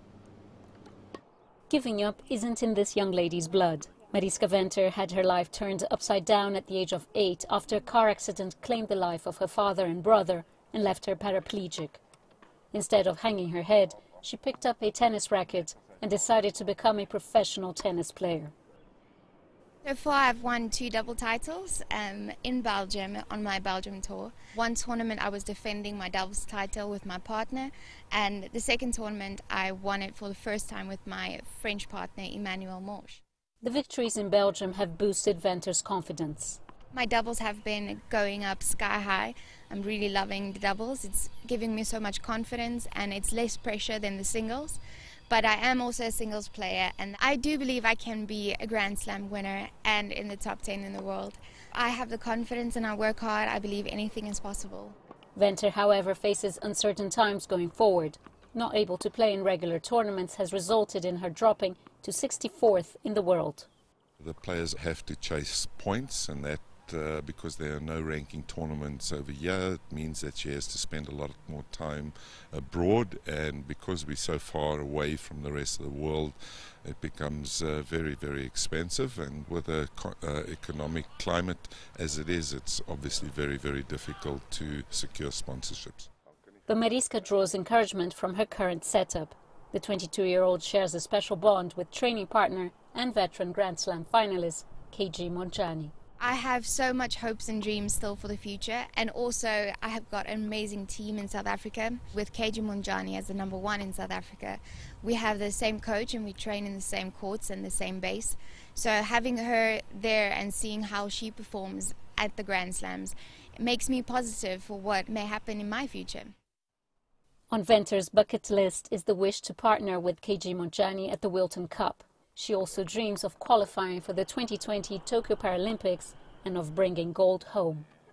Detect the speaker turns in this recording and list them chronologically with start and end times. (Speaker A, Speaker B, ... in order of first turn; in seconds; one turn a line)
Speaker A: 1.7-12.0
Speaker A: 12.7-18.5
Speaker B: 19.8-33.2
Speaker A: 33.6-36.6
Speaker B: 36.9-44.8
Speaker B: 45.3-55.0
Speaker A: 55.4-63.7
Speaker C: 64.2-86.1
Speaker A: 86.7-95.9
Speaker B: 96.2-116.3
Speaker A: 117.5-127.9